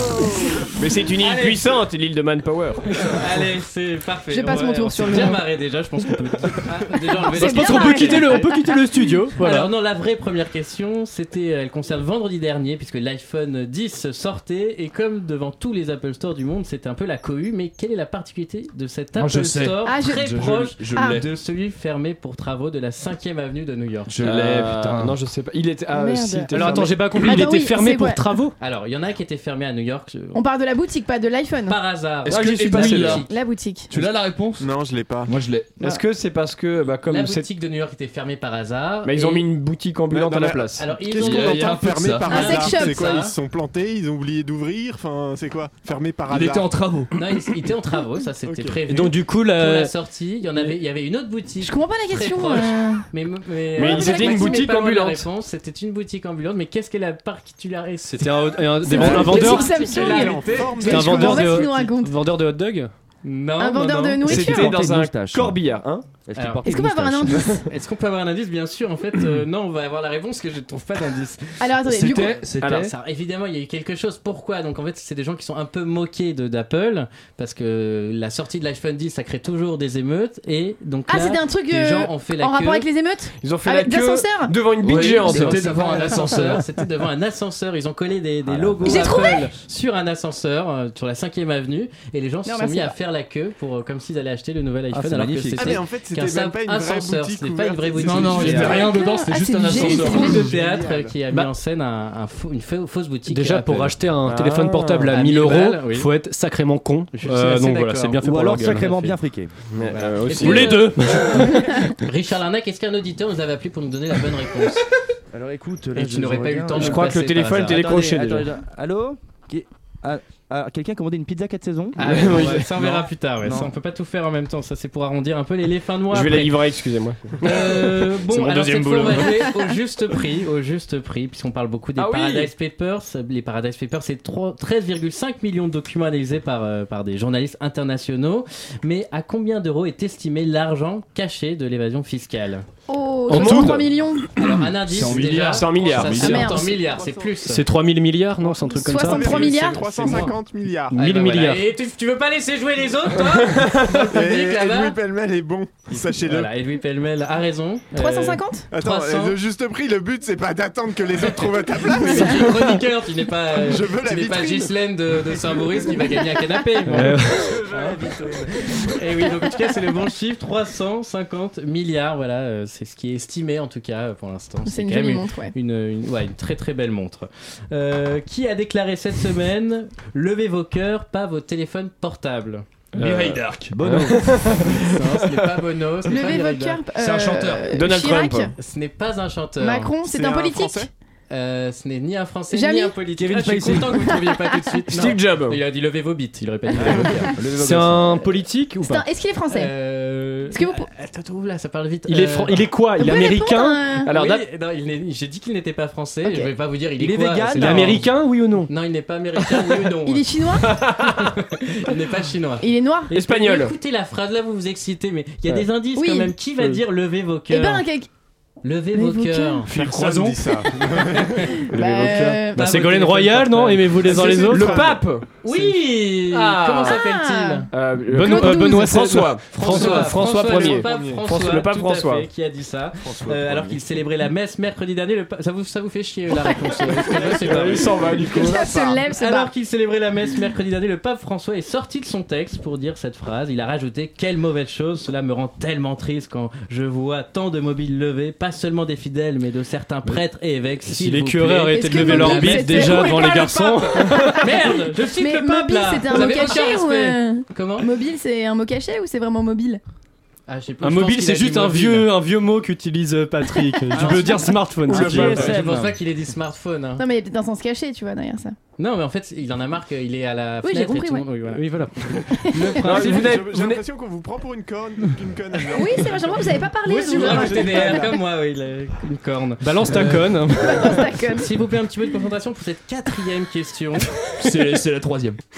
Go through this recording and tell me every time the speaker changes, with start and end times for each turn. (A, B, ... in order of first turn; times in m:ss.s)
0:00.8-0:03.0 A
0:01.2-0:01.8 B
0:03.1-0:08.5 B
0:04.3-0:05.4 C
0:07.2-0:09.1 C
0:07.3-0:09.7 D
0:09.4-0:24.2 B
0:19.2-0:21.3 E
0:19.8-0:20.3 C
0:21.0-0:21.2 C
0:24.1-0:25.2 E
0:24.2-0:27.2 A
0:25.9-0:28.2 C
0:26.5-0:28.5 D
0:28.6-0:30.4 B
0:30.3-0:31.8 C
0:31.7-0:33.4 B
0:32.2-0:33.3 E
0:32.4-0:33.1 D
0:33.2-0:33.9 C
0:33.9-0:34.7 E
0:34.6-0:35.3 F
0:35.3-0:35.8 E
0:35.8-0:37.5 A
0:37.0-0:39.5 B
0:39.0-0:40.9 A
0:40.1-0:46.7 F
0:40.7-0:43.3 B
0:41.1-0:42.5 E
0:42.3-0:43.1 C
0:46.3-0:47.1 E
0:47.1-1:01.6 B
0:48.5-0:48.8 F
0:48.9-0:49.9 D
0:51.6-0:53.0 C
0:53.8-0:55.2 D
0:53.9-0:54.6 C
0:58.1-0:59.7 D
0:58.8-1:02.1 C
0:59.0-1:01.7 F
1:00.8-1:02.9 D
1:03.2-1:04.5 B
1:03.6-1:04.8 C
1:04.2-1:06.1 A
1:04.4-1:05.7 G
1:06.2-1:07.5 G
1:06.4-1:06.6 B
1:06.7-1:07.6 C
1:07.6-1:22.9 B
1:11.6-1:12.4 C
1:11.9-1:12.9 E
1:12.6-1:12.9 A
1:21.1-1:24.6 C
1:23.4-1:25.6 A
1:24.8-1:26.7 E
1:25.0-1:26.0 G
1:25.1-1:44.3 B
1:28.5-1:29.1 G
1:28.8-1:29.5 C
1:32.5-1:33.0 C
1:34.9-1:35.8 G
1:35.6-1:38.9 F
1:38.0-1:40.5 E
1:38.6-1:40.5 C
1:39.8-1:41.2 F
1:43.3-1:48.9 D
1:44.3-1:45.1 A
1:45.1-1:46.1 B
1:47.1-1:49.2 B
1:48.2-1:49.5 G
1:49.7-1:50.9 A
1:49.8-1:54.8 B
1:50.3-1:51.9 D
1:55.3-2:02.6 G
1:56.0-1:57.9 B
1:56.8-1:58.5 A
2:02.0-2:06.7 B
2:02.0-2:02.7 A
2:03.4-2:03.7 G
2:06.1-2:07.7 A
2:07.4-2:22.6 B
2:08.3-2:09.2 A
2:08.4-2:09.0 D
2:12.0-2:12.5 A
2:22.9-2:24.3 C
2:23.3-2:23.8 D
2:23.3-2:23.8 A
2:24.4-2:26.7 E
2:24.4-2:27.6 B
2:25.1-2:25.5 D
2:25.5-2:26.2 A
2:26.2-2:26.8 C
2:26.9-2:27.2 G
2:27.4-2:29.5 D
2:28.8-2:30.2 C
2:28.8-2:31.0 F
2:29.6-2:30.3 B
2:30.9-2:31.6 D
2:30.9-2:35.0 B
2:33.6-2:36.5 F
2:35.9-2:39.4 B
2:38.0-2:38.7 C
2:38.7-2:42.8 F
2:41.2-3:02.6 B
2:43.5-2:44.8 F
2:46.9-2:47.6 D
2:54.6-2:55.5 C
3:03.0-3:04.2 E
3:03.0-3:04.7 A
3:03.7-3:04.3 G
3:04.8-3:06.8 B
3:06.1-3:08.5 C
3:07.0-3:07.8 E
3:07.7-3:08.5 A
3:08.6-3:09.9 B
3:09.6-3:10.9 C
3:10.0-3:10.9 F
3:11.3-3:17.4 B
3:12.5-3:13.0 C
3:13.2-3:14.0 G
3:14.1-3:14.4 C
3:14.9-3:15.6 A
3:16.8-3:18.1 G
3:17.5-3:19.0 D
3:18.8-3:19.7 C
3:19.5-3:22.6 B
3:20.5-3:20.9 C
3:22.1-3:24.4 D
3:23.0-3:24.1 C
3:24.1-3:24.4 A
3:24.1-3:28.1 B
3:26.2-3:26.5 C
3:27.0-3:28.0 G
3:27.6-3:28.7 D
3:28.7-3:30.2 B
3:30.0-3:30.8 C
3:31.0-3:37.9 B
3:32.6-3:33.1 C
3:33.1-3:33.7 A
3:36.0-3:36.3 C
3:37.5-3:38.1 C
3:38.6-3:39.7 B
3:38.9-3:39.6 C
3:39.7-3:41.4 F
3:41.7-3:42.7 C
3:41.7-3:42.4 A
3:42.5-3:45.0 D
3:42.5-3:44.6 B
3:44.0-3:45.0 F
3:44.5-3:45.2 A
3:45.4-3:47.7 B
3:46.3-3:46.8 D
3:46.9-3:47.7 C
3:47.7-3:52.3 A
3:48.1-3:50.8 D
3:48.2-3:49.0 C
3:49.5-4:17.9 B
3:50.4-3:51.3 F
3:57.4-3:58.7 A
3:57.6-3:58.8 F
3:58.2-3:59.5 C
4:10.9-4:14.5 D
4:11.7-4:13.7 C
4:15.0-4:19.8 C
4:20.5-4:22.1 B
4:20.8-4:25.6 D
4:24.0-4:27.0 B
4:24.0-4:24.3 G
4:24.9-4:26.0 G
4:27.0-4:28.6 C
4:28.8-4:31.8 B
4:30.6-4:31.3 C
4:31.5-4:33.8 D
4:32.4-4:33.2 C
4:32.5-4:33.4 B
4:32.8-4:36.4 F
4:33.0-4:33.6 A
4:35.7-4:38.1 C
4:36.8-4:40.4 B
4:37.1-4:38.2 F
4:39.6-4:41.1 D
4:40.6-4:41.5 C
4:41.4-4:44.1 B
4:44.4-4:45.4 E